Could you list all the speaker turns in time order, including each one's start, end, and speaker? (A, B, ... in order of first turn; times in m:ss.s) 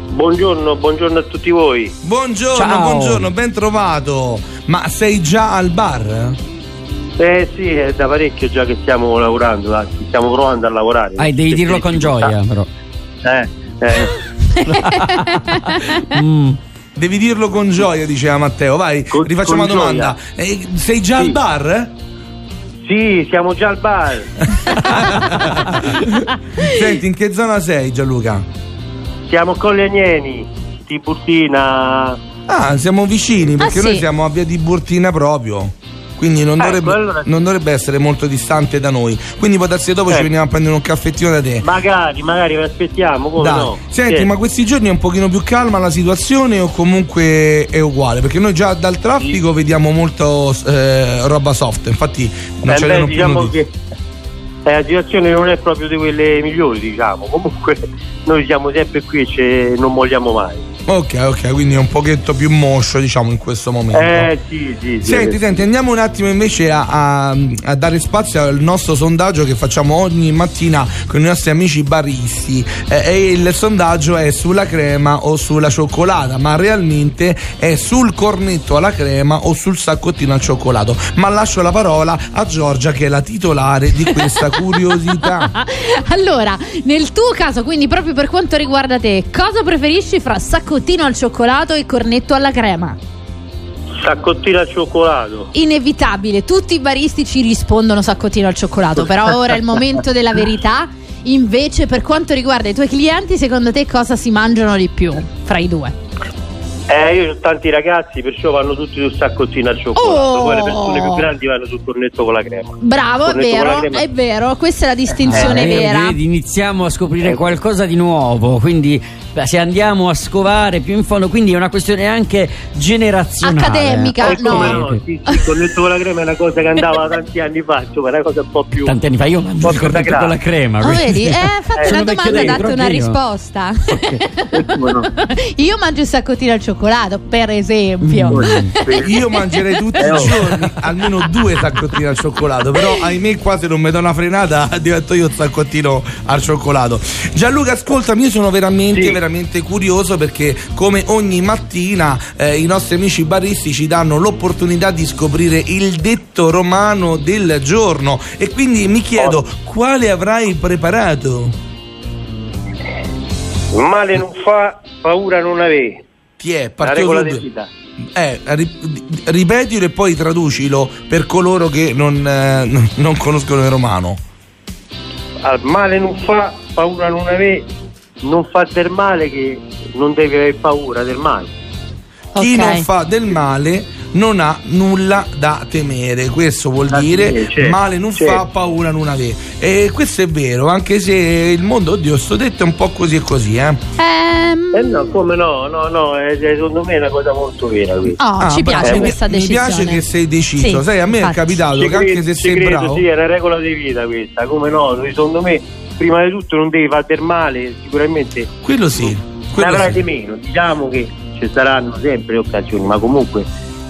0:00.1-0:01.9 A
0:02.0-0:06.4 B
0:02.5-0:03.3 C
0:07.2-0:12.3 A
0:11.2-0:12.7 C
0:13.2-0:14.2 A
0:14.5-0:16.1 D
0:14.6-0:16.6 C
0:17.0-0:21.9 B
0:19.1-0:20.2 A
0:22.8-0:24.3 A
0:24.5-0:28.4 B
0:29.3-0:32.2 A
0:32.5-0:41.6 B
0:33.6-0:34.0 D
0:36.6-0:37.3 A
0:41.6-0:44.3 A
0:43.4-0:53.5 B
0:52.7-0:53.7 A
0:54.6-1:00.6 A
1:00.9-1:04.3 B
1:03.9-1:05.4 A
1:05.0-1:25.5 B
1:24.1-1:33.0 D
1:34.0-1:35.5 A
1:35.5-1:45.9 D
1:46.9-1:54.1 A
1:50.0-1:51.3 D
1:52.8-1:56.2 D
1:55.2-2:05.0 C
1:55.3-1:55.6 A
2:03.4-2:05.6 D
2:04.2-2:09.0 A
2:08.7-2:13.2 C
2:09.6-2:10.3 A
2:10.8-2:20.5 D
2:11.8-2:12.6 A
2:14.0-2:14.2 C
2:14.5-2:15.1 A
2:18.0-2:18.8 C
2:18.3-2:19.1 A
2:19.0-2:41.6 B
2:20.0-2:20.4 A
2:28.9-2:29.2 A
2:43.7-2:46.0 A
2:46.4-2:47.4 B
2:46.8-2:47.7 A
2:48.1-2:54.2 B
2:55.4-2:57.6 A
2:58.2-3:01.5 A
3:02.3-3:02.8 D
3:02.4-3:13.8 B
3:06.9-3:08.4 A
3:14.0-3:15.1 D
3:14.7-3:18.2 A
3:18.2-3:20.0 D
3:18.4-3:23.0 B
3:20.6-3:21.6 D
3:21.8-3:28.5 A
3:28.6-3:30.0 B
3:29.0-3:33.4 A